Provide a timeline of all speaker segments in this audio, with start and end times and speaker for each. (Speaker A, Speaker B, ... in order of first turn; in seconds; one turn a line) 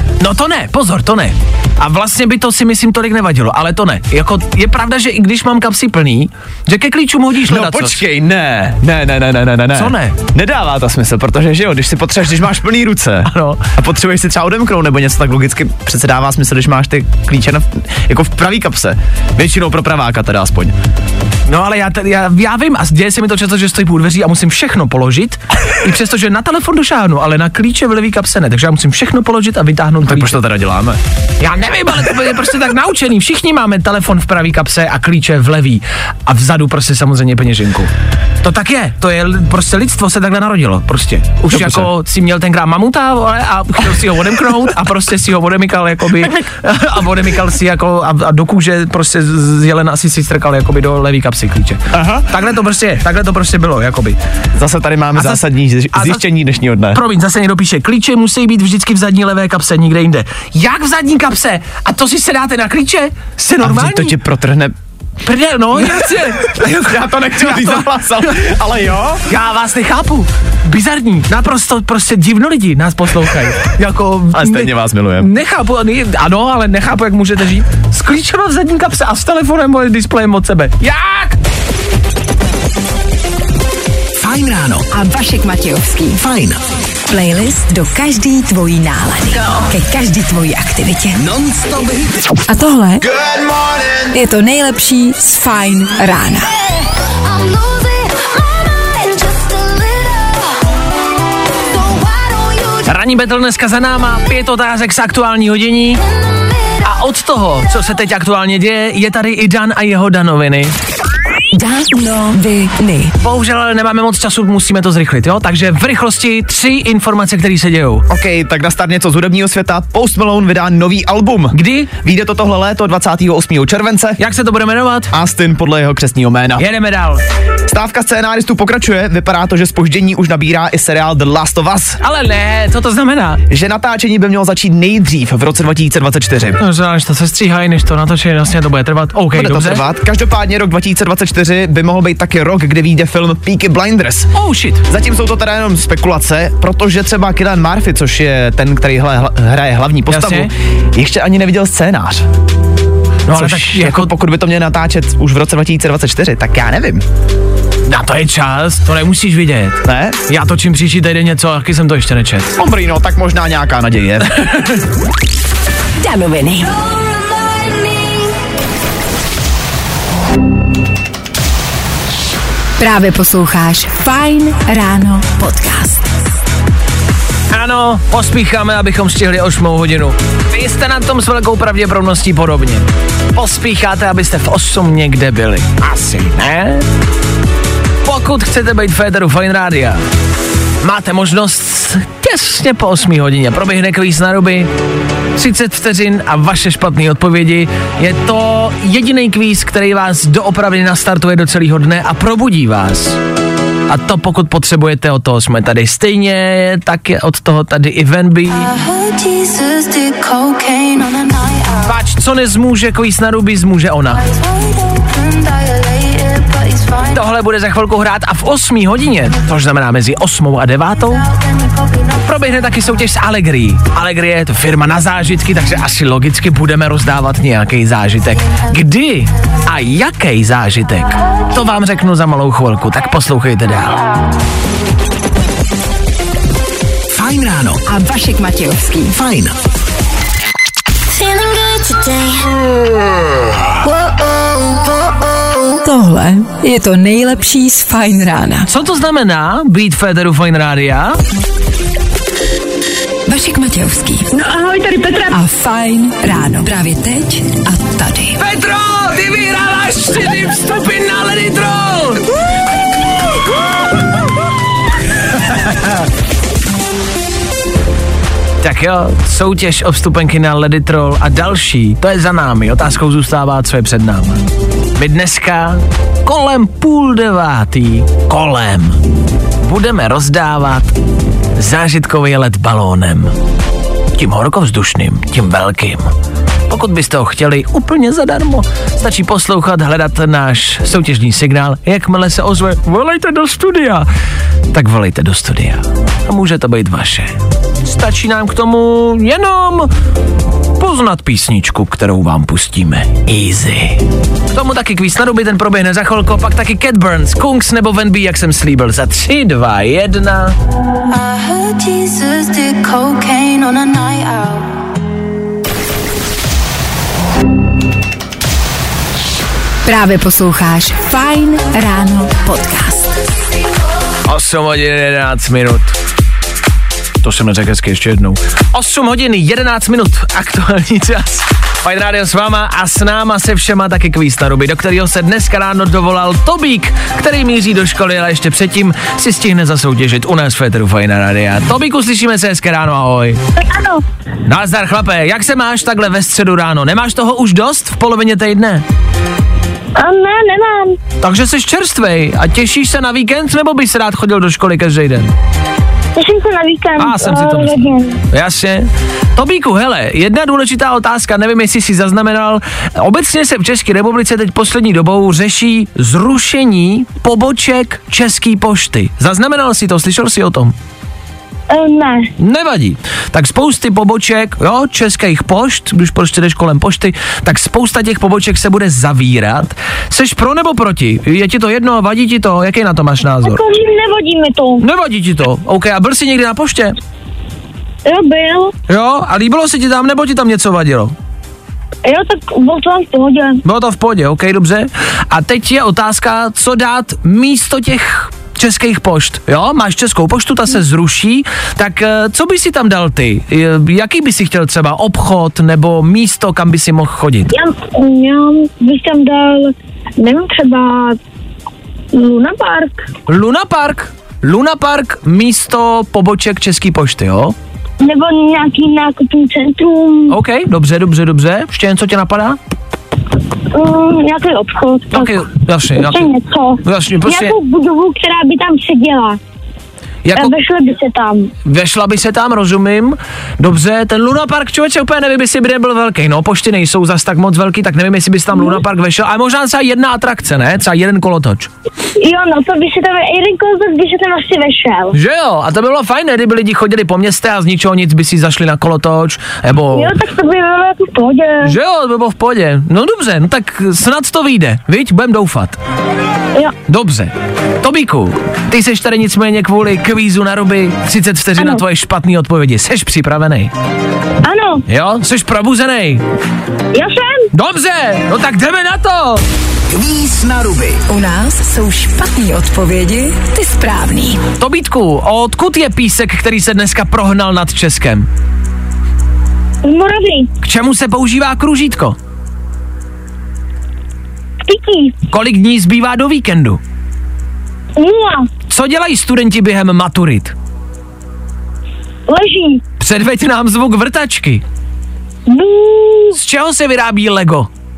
Speaker A: 0.2-8.0
Speaker B: 7.4-20.7
Speaker A: 9.7-10.1
Speaker A: 13.2-13.6
Speaker A: 21.5-30.4
Speaker B: 30.0-31.0
Speaker A: 31.4-37.9
Speaker A: 38.4-54.2
Speaker B: 41.5-41.9
Speaker B: 51.9-52.3
Speaker B: 54.5-57.0
Speaker A: 55.1-56.2
Speaker A: 56.9-64.1
Speaker B: 63.6-64.7
Speaker A: 65.2-67.9
Speaker B: 65.8-69.2
Speaker A: 69.2-81.3
Speaker B: 74.3-75.3
Speaker C: 84.2-84.9
Speaker D: 84.9-86.2
Speaker C: 86.2-86.6
Speaker D: 87.1-91.2
Speaker C: 91.2-92.1
Speaker D: 92.5-93.0
Speaker C: 93.2-93.8
Speaker D: 94.1-96.5
Speaker E: 97.3-100.3
Speaker E: 101.9-102.8
Speaker A: 102.8-106.0
Speaker A: 106.8-110.7
Speaker D: 111.5-113.1
Speaker A: 113.2-118.0
Speaker B: 118.1-124.2
Speaker A: 121.5-121.9
Speaker A: 124.2-125.1
Speaker B: 125.1-126.7
Speaker A: 126.6-127.2
Speaker B: 127.7-132.0
Speaker A: 132.0-133.4
Speaker B: 133.5-136.6
Speaker A: 136.6-139.8
Speaker B: 139.3-144.3
Speaker A: 144.3-144.8
Speaker B: 144.9-152.3
Speaker A: 150.1-150.5
Speaker A: 153.3-154.1
Speaker B: 153.3-157.0
Speaker A: 157.8-162.5
Speaker B: 159.8-160.2
Speaker B: 162.6-164.7
Speaker D: 166.0-166.8
Speaker D: 172.8-176.1
Speaker A: 177.5-186.8
Speaker A: 188.0-190.0
Speaker A: 190.8-194.7
Speaker A: 195.3-203.2
Speaker A: 203.9-208.7
Speaker E: 208.5-211.9
Speaker A: 211.8-214.2
Speaker E: 214.2-217.3
Speaker A: 217.1-221.2
Speaker E: 221.4-222.0
Speaker A: 222.2-234.0
Speaker C: 237.1-237.8
Speaker D: 237.9-239.1
Speaker C: 239.1-239.5
Speaker E: 241.1-242.5
Speaker D: 245.8-248.7
Speaker A: 248.7-251.2
Speaker D: 253.3-254.3
Speaker F: 254.4-255.2
Speaker D: 255.3-258.4
Speaker A: 258.4-262.2
Speaker A: 268.6-274.4
Speaker A: 274.9-279.0
Speaker A: 279.6-280.9
Speaker A: 281.6-283.3
Speaker A: 284.1-286.1
Speaker A: 286.7-294.1
Speaker A: 294.7-299.9
Speaker A: 300.8-310.5
Speaker E: 311.1-314.8
Speaker D: 319.9-323.1
Speaker A: 324.2-325.9
Speaker A: 327.2-343.4
Speaker F: 343.6-344.0
Speaker A: 344.4-348.8
Speaker F: 350.0-351.0
Speaker A: 351.2-355.3
Speaker F: 356.1-358.2
Speaker A: 357.0-370.7
Speaker F: 371.7-372.3
Speaker A: 372.4-383.6
Speaker F: 383.4-384.8
Speaker A: 384.8-386.9
Speaker F: 388.1-388.7
Speaker A: 388.9-391.1
Speaker F: 392.0-393.6
Speaker A: 393.6-407.5
Speaker F: 407.5-411.2
Speaker F: 412.1-413.1
Speaker A: 413.3-417.5
Speaker F: 418.0-420.4
Speaker A: 420.3-422.6
Speaker F: 423.7-425.4
Speaker A: 425.1-426.3
Speaker F: 426.0-429.4
Speaker A: 426.8-427.5
Speaker A: 430.2-430.5
Speaker F: 430.3-431.5
Speaker A: 431.6-441.7
Speaker F: 442.2-445.1
Speaker A: 445.1-450.2
Speaker F: 449.9-451.7
Speaker A: 451.6-455.8
Speaker A: 456.9-463.7
Speaker F: 464.4-464.8
Speaker A: 464.9-466.2
Speaker F: 466.9-467.4
Speaker A: 467.5-469.4
Speaker C: 469.9-471.0
Speaker D: 471.1-474.4
Speaker A: 474.6-478.3
Speaker F: 479.8-480.5
Speaker A: 480.6-482.2
Speaker F: 484.6-485.1
Speaker A: 485.3-486.8
Speaker F: 488.0-488.5
Speaker A: 488.7-490.5
Speaker F: 492.3-492.8
Speaker A: 493.0-494.6
Speaker F: 495.5-496.4
Speaker A: 496.3-497.7